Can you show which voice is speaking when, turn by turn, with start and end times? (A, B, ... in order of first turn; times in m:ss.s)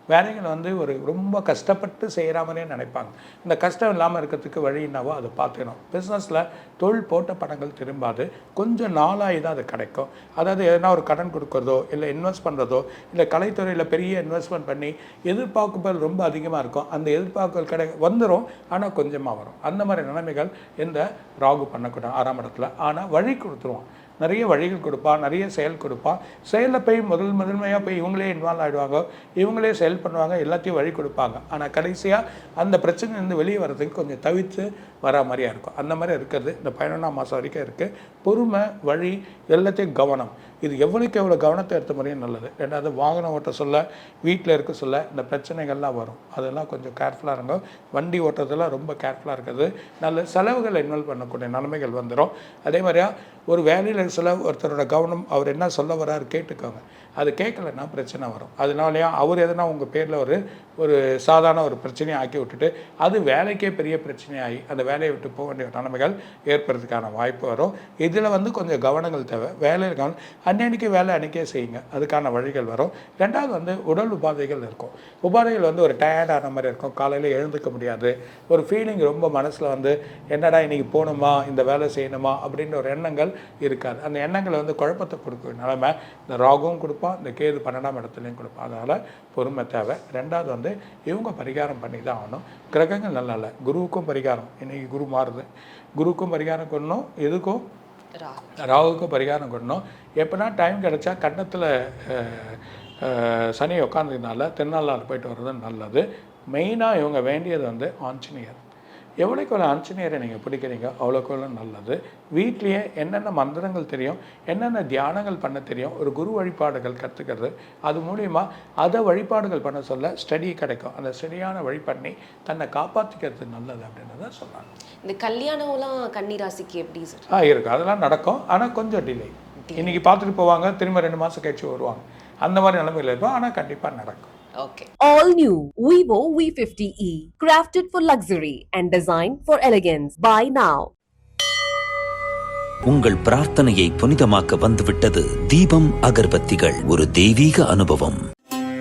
0:00.1-1:35.5 A
1:36.0-1:37.6 A
1:38.2-1:38.6 B
1:38.6-1:48.6 A
1:49.2-2:04.7 A
2:05.0-2:07.3 B
2:07.3-2:14.3 A
2:09.7-2:10.0 B
2:14.6-2:14.9 B
2:15.0-2:20.9 C
2:22.9-2:28.2 D